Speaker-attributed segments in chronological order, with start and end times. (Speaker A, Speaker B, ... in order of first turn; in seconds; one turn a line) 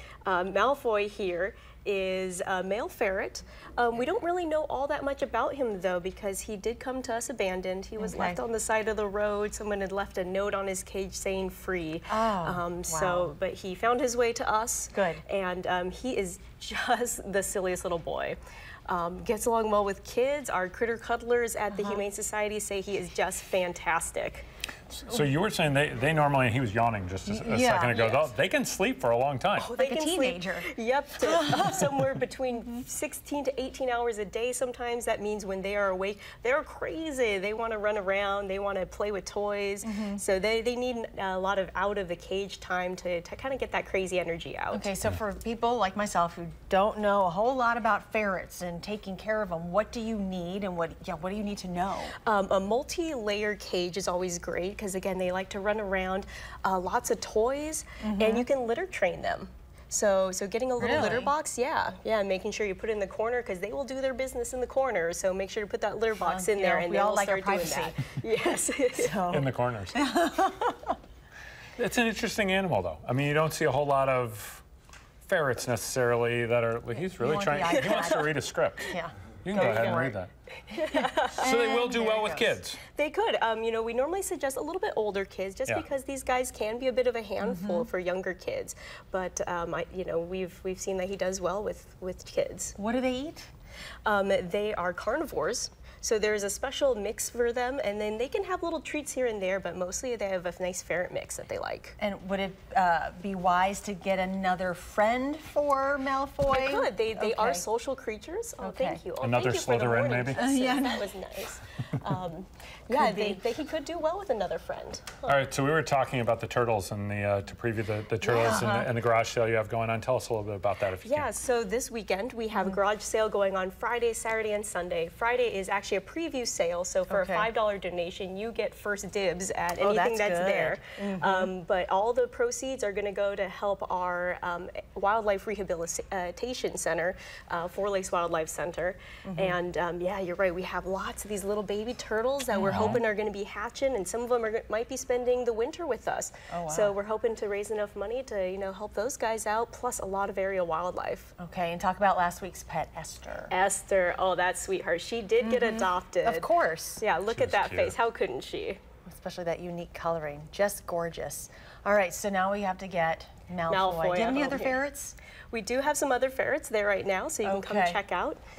Speaker A: 0.2-24.4
Speaker B: 8.0-8.4
Speaker B: 12.1-13.3
Speaker B: 14.9-15.2
Speaker B: 21.7-22.0
Speaker C: 24.9-29.7
Speaker B: 27.3-28.1
Speaker A: 27.9-28.2
Speaker A: 29.6-44.9
Speaker B: 29.8-31.9
Speaker B: 39.8-40.2
Speaker B: 44.7-52.1
Speaker A: 52.2-69.2
Speaker B: 58.0-58.5
Speaker B: 60.8-61.3
Speaker B: 66.2-68.2
Speaker B: 69.0-71.0
Speaker C: 69.3-70.0
Speaker C: 71.8-74.6
Speaker C: 75.2-80.3
Speaker B: 77.1-80.2
Speaker A: 77.7-78.3
Speaker A: 79.5-80.1
Speaker A: 80.7-81.5
Speaker B: 80.8-82.6
Speaker C: 81.4-82.8
Speaker A: 82.9-92.8
Speaker B: 87.4-87.9
Speaker B: 92.8-93.5
Speaker A: 94.0-102.0
Speaker B: 102.0-107.6
Speaker A: 106.5-115.3
Speaker B: 108.6-109.0
Speaker C: 109.2-110.4
Speaker B: 110.3-111.1
Speaker B: 112.9-113.4
Speaker C: 115.2-121.3
Speaker B: 118.2-118.9
Speaker A: 121.0-151.3
Speaker B: 127.1-127.5
Speaker B: 129.8-131.5
Speaker B: 139.3-139.6
Speaker B: 142.5-143.0
Speaker B: 146.5-146.9
Speaker B: 151.4-153.5
Speaker A: 153.5-158.8
Speaker B: 155.4-157.0
Speaker C: 157.3-157.9
Speaker B: 159.1-165.1
Speaker A: 163.7-164.8
Speaker A: 165.5-168.4
Speaker B: 167.4-168.0